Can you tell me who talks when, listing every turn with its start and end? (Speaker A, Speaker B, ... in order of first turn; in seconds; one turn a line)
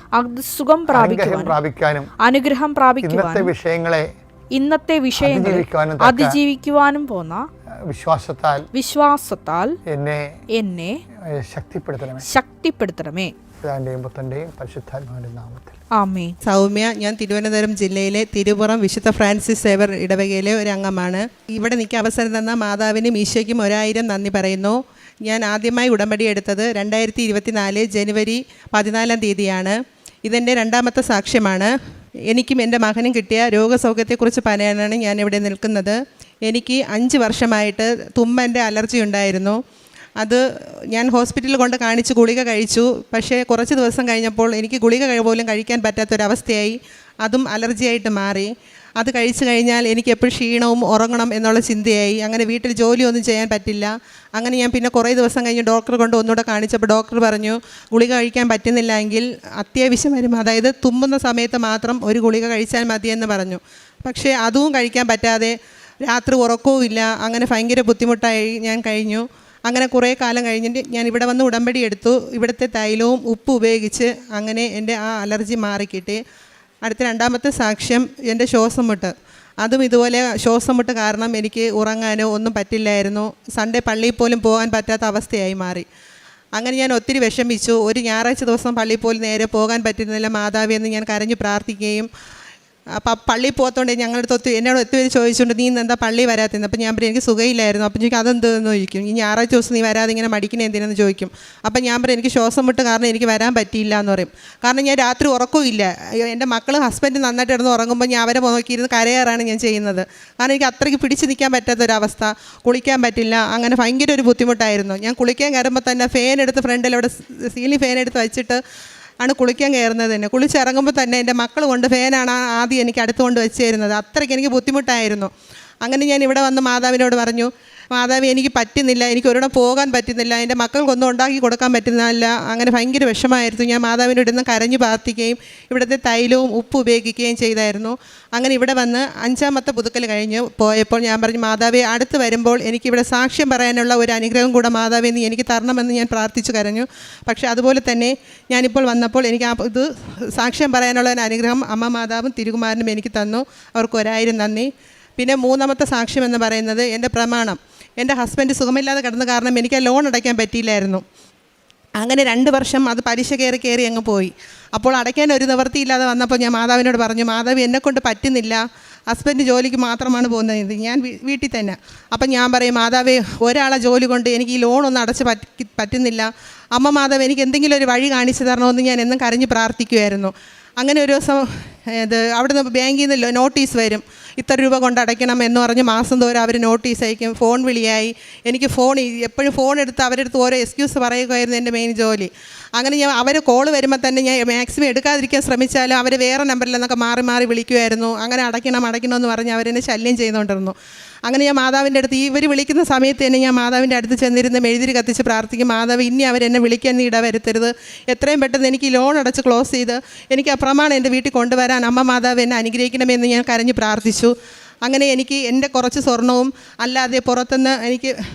Speaker A: 0.1-1.6
Speaker B: 0.9-2.1
Speaker A: 2.2-3.5
Speaker B: 3.0-4.1
Speaker A: 4.5-7.5
Speaker B: 5.2-6.4
Speaker B: 7.9-8.6
Speaker A: 8.7-9.7
Speaker B: 9.9-10.3
Speaker A: 10.5-10.9
Speaker B: 11.3-12.2
Speaker A: 12.2-13.3
Speaker B: 13.6-15.8
Speaker A: 15.9-16.3
Speaker C: 16.4-31.7
Speaker C: 32.3-39.6
Speaker C: 40.2-76.2
Speaker C: 76.8-85.8
Speaker C: 86.5-92.1
Speaker C: 93.0-118.6
Speaker C: 119.2-125.3
Speaker C: 125.8-161.0
Speaker C: 162.0-200.7
Speaker C: 201.2-218.1